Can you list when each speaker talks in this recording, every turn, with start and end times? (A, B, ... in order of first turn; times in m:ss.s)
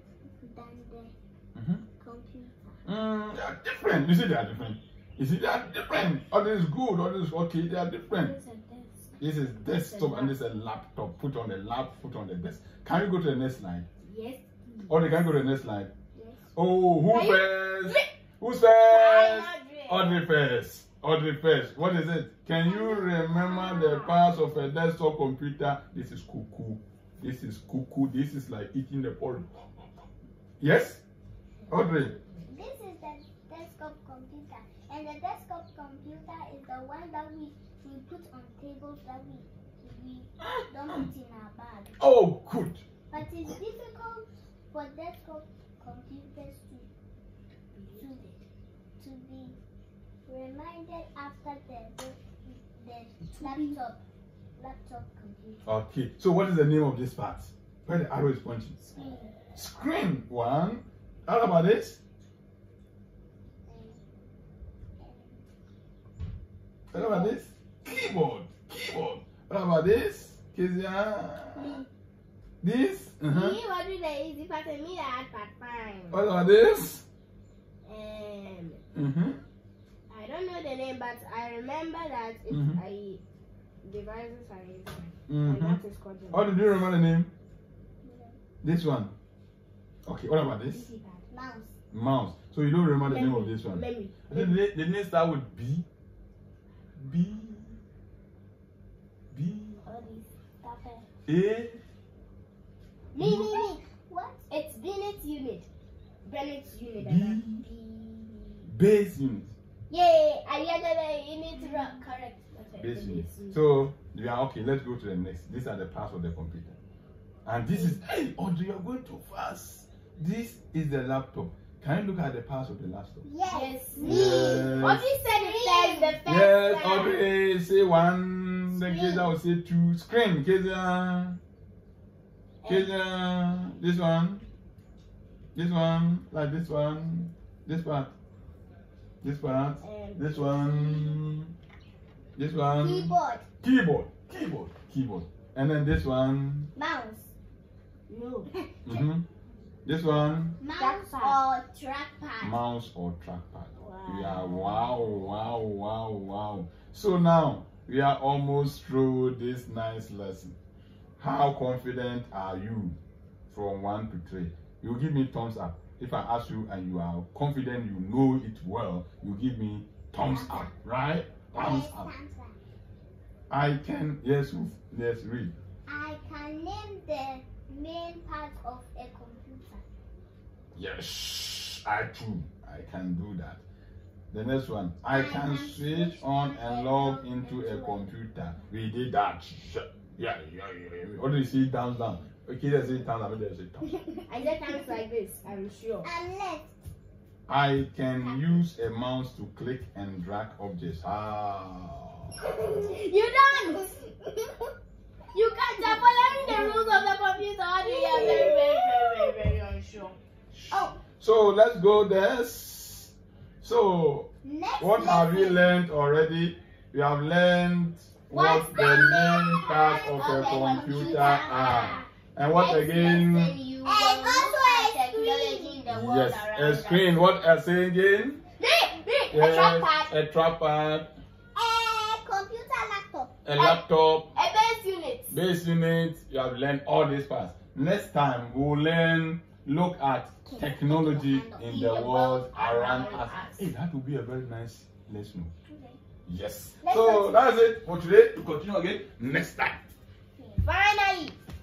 0:00.2-0:01.1 A
0:01.6-0:01.8 B
0:02.0-0:02.9 A
0:02.9-0:08.4 B
0:08.1-0:10.4 C
0:09.2-0:13.9 B
0:14.0-0:15.0 C
0:14.9-0:15.9 B
0:16.2-0:16.4 C
0:16.6-0:30.0 B
0:17.1-0:18.1 C
0:18.9-0:20.2 C
0:22.7-0:24.3 C
0:30.6-0:31.0 B
0:31.6-0:32.5 C
0:31.7-0:32.1 B
0:32.4-0:42.0 A
0:40.5-0:41.0 B
0:42.0-0:42.8 B
0:43.1-0:46.9 A
0:47.7-0:48.1 C
0:48.0-0:48.4 A
0:49.0-0:49.6 A
0:50.3-0:54.0 A
0:53.3-0:53.8 C
0:54.6-0:55.7 A
0:55.7-0:58.8 B
0:58.8-0:59.3 A
0:59.6-1:02.0 B
1:03.7-1:04.0 A
1:05.0-1:05.4 A
1:06.9-1:11.8 B
1:11.6-1:11.9 A
1:12.6-1:13.6 B
1:13.3-1:16.2 C
1:16.1-1:17.0 B
1:17.8-1:18.8 C
1:18.9-1:19.4 B
1:20.1-1:23.2 C
1:22.5-1:22.8 B
1:23.8-1:26.7 C
1:25.3-1:25.8 B
1:26.3-1:27.3 B
1:28.0-1:28.4 A
1:28.6-1:29.1 B
1:30.0-1:30.9 B
1:30.6-1:31.3 C
1:31.3-1:31.8 A
1:31.9-1:35.8 B
1:33.0-1:34.6 C
1:37.0-1:37.8 B
1:39.3-1:39.8 B
1:39.8-1:41.1 C
1:41.3-1:41.8 B
1:43.1-1:43.8 C
1:43.2-1:43.4 B
1:43.2-1:44.5 A
1:44.5-1:45.7 C
1:46.2-1:48.7 C
1:47.0-1:47.6 B
1:48.7-1:49.5 B
1:49.9-1:50.5 A
1:50.4-1:53.6 C
1:51.6-1:52.0 A
1:52.8-1:56.8 B
1:57.4-2:03.2 B
2:03.2-2:06.2 A
2:03.5-2:07.2 C
2:04.0-2:05.1 B
2:06.3-2:11.4 B
2:08.8-2:09.2 A
2:12.6-2:12.9 C
2:12.6-2:14.5 B
2:15.5-2:18.1 B
2:19.2-2:21.5 B
2:19.8-2:21.0 C
2:22.4-2:26.7 B
2:22.8-2:23.5 A
2:26.8-2:27.3 A
2:28.1-2:28.5 C
2:28.5-2:29.0 A
2:28.9-2:29.2 B
2:29.9-2:30.6 B
2:30.6-2:32.6 A
2:30.7-2:31.5 C
2:32.4-2:40.6 B
2:33.8-2:34.9 C
2:41.2-2:43.0 B
2:43.5-2:52.1 B
2:50.2-2:50.7 A
2:51.5-2:52.6 A
2:53.5-2:55.5 B
2:55.9-2:59.8 A
3:00.7-3:03.6 B
3:04.3-3:13.9 B
3:05.1-3:08.1 A
3:14.0-3:14.6 A
3:14.3-3:16.1 C
3:16.0-3:16.7 A
3:17.5-3:22.9 B
3:22.6-3:24.1 C
3:23.2-3:23.9 A
3:25.3-3:30.2 C
3:25.8-3:27.1 A
3:27.8-3:29.3 A
3:30.5-3:43.6 B
3:34.4-3:35.7 A
3:38.3-3:42.1 A
3:39.6-3:47.1 C
3:43.8-3:45.8 A
3:45.9-3:48.4 B
3:48.6-3:50.1 C
3:49.3-3:51.1 B
3:51.6-3:53.4 A
3:53.4-3:54.3 B
3:54.3-3:55.4 C
3:55.3-4:05.5 B
4:00.4-4:01.9 A
4:01.6-4:03.7 C
4:05.7-4:06.0 A
4:06.3-4:09.8 B
4:06.8-4:07.4 A
4:10.4-4:10.7 A
4:10.6-4:11.4 C